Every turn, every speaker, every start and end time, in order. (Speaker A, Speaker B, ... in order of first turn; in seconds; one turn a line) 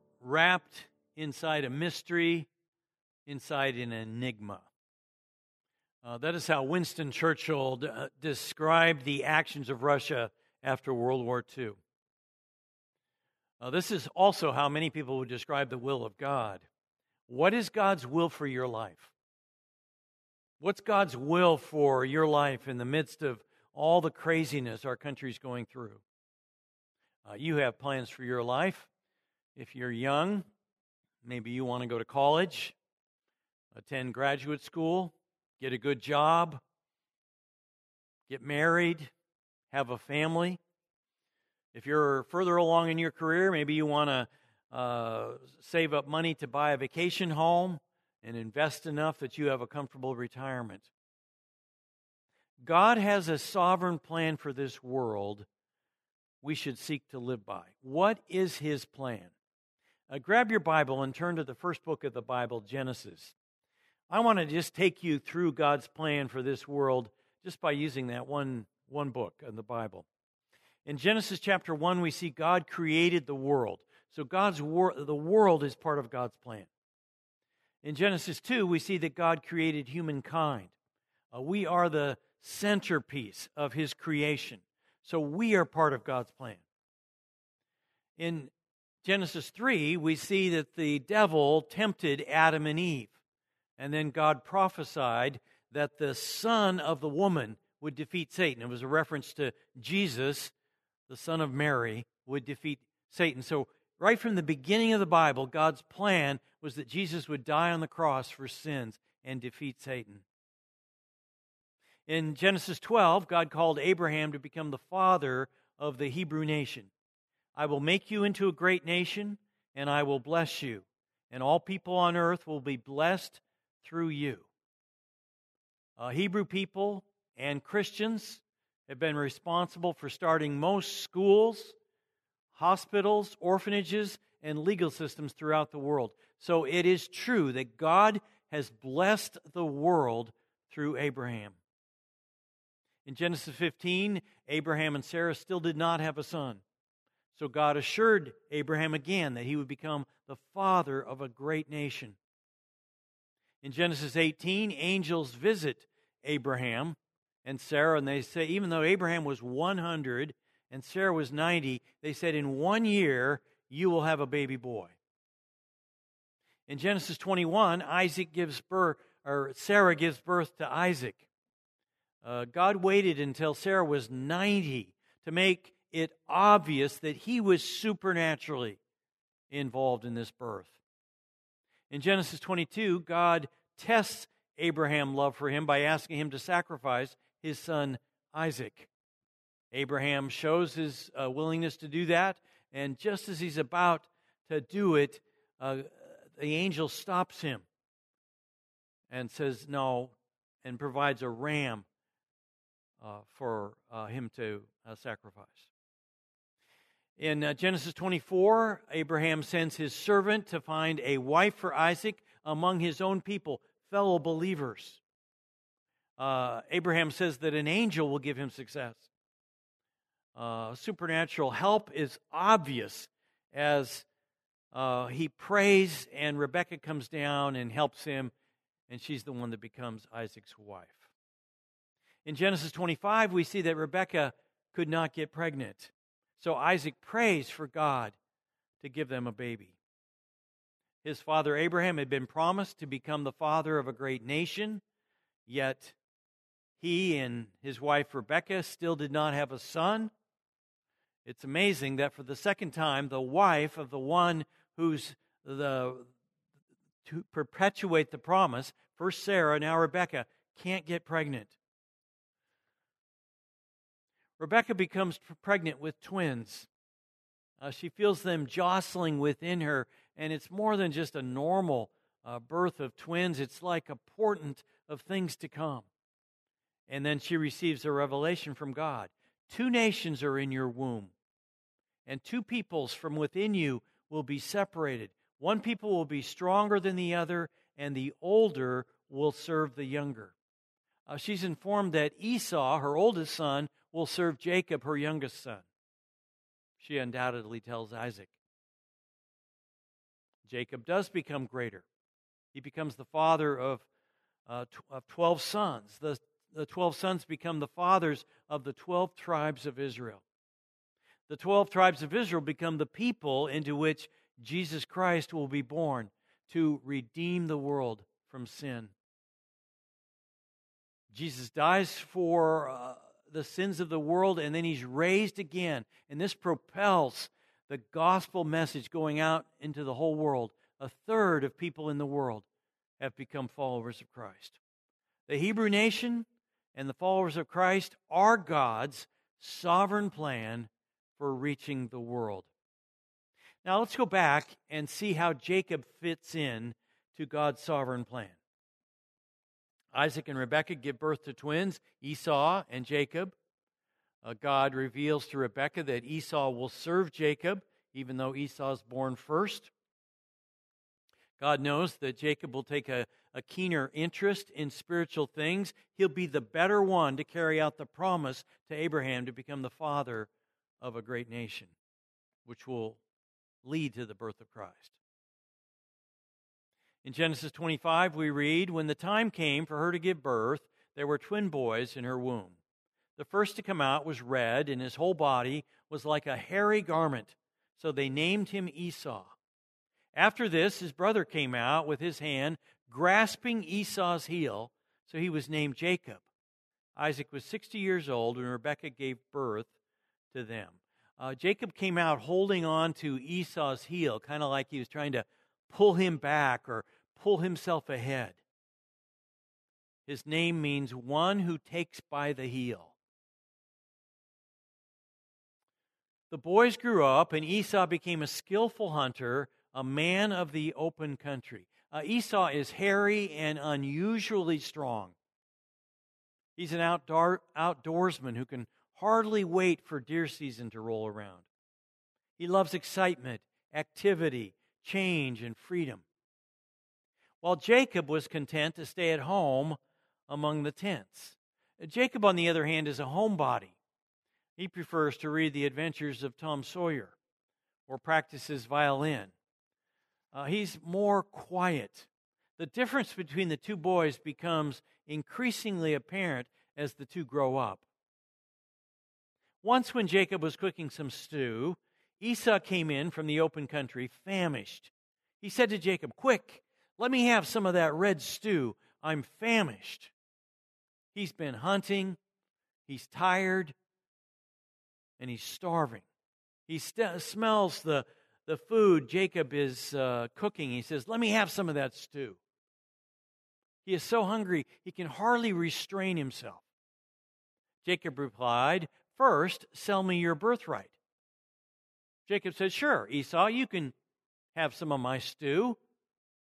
Speaker A: 0.2-2.5
Speaker A: 3.2-4.7
Speaker A: 6.0-11.8
Speaker A: 13.6-16.6
Speaker A: 17.3-19.1
Speaker A: 20.6-26.0
Speaker A: 27.2-28.9
Speaker A: 29.5-30.5
Speaker A: 31.2-32.8
Speaker A: 33.7-36.6
Speaker A: 38.3-39.1
Speaker A: 39.7-40.6
Speaker A: 41.7-50.9
Speaker A: 52.6-55.5
Speaker A: 56.4-59.3
Speaker A: 60.1-63.3
Speaker A: 64.1-70.0
Speaker A: 70.8-76.7
Speaker A: 77.8-80.7
Speaker A: 81.3-86.6
Speaker A: 88.2-88.5
Speaker A: 89.0-93.1
Speaker A: 93.8-100.5
Speaker A: 101.1-110.2
Speaker A: 112.1-116.9
Speaker A: 117.5-124.5
Speaker A: 126.0-131.8
Speaker A: 132.5-141.6
Speaker A: 143.0-146.6
Speaker A: 147.3-152.2
Speaker A: 153.6-164.9
Speaker A: 166.7-171.2
Speaker A: 172.2-178.8
Speaker A: 179.5-180.8
Speaker A: 181.9-188.9
Speaker A: 189.7-197.7
Speaker A: 199.1-201.8
Speaker A: 203.0-205.7
Speaker A: 207.2-215.0
Speaker A: 216.2-219.1
Speaker A: 220.3-224.1
Speaker A: 224.7-228.3
Speaker A: 228.9-231.1
Speaker A: 232.2-238.2
Speaker A: 238.8-239.8
Speaker A: 241.0-244.8
Speaker A: 245.4-245.9
Speaker A: 246.8-250.1
Speaker A: 251.2-256.1
Speaker A: 257.0-261.6
Speaker A: 264.4-266.7
Speaker A: 267.6-275.9
Speaker A: 276.9-281.1
Speaker A: 282.1-290.3
Speaker A: 291.1-295.7
Speaker A: 296.8-298.3
Speaker A: 300.4-301.8
Speaker A: 302.5-303.9
Speaker A: 304.5-310.2
Speaker A: 311.3-318.9
Speaker A: 321.1-332.4
Speaker A: 333.0-334.6
Speaker A: 335.3-342.5
Speaker A: 343.6-348.4
Speaker A: 349.9-353.3
Speaker A: 354.2-359.7
Speaker A: 361.4-370.3
Speaker A: 370.8-371.7
Speaker A: 372.4-373.0
Speaker A: 373.6-374.9
Speaker A: 377.0-382.6
Speaker A: 383.1-389.3
Speaker A: 390.1-396.2
Speaker A: 396.9-399.7
Speaker A: 400.3-408.4
Speaker A: 410.1-412.9
Speaker A: 416.3-425.1
Speaker A: 426.6-431.4
Speaker A: 432.4-436.0
Speaker A: 437.4-443.7
Speaker A: 444.6-447.2
Speaker A: 447.9-449.3
Speaker A: 450.3-457.8
Speaker A: 459.6-470.1
Speaker A: 471.1-472.2
Speaker A: 472.9-473.7
Speaker A: 475.2-476.1
Speaker A: 476.7-482.4
Speaker A: 483.8-486.6
Speaker A: 487.8-490.9
Speaker A: 492.3-493.9
Speaker A: 494.5-495.8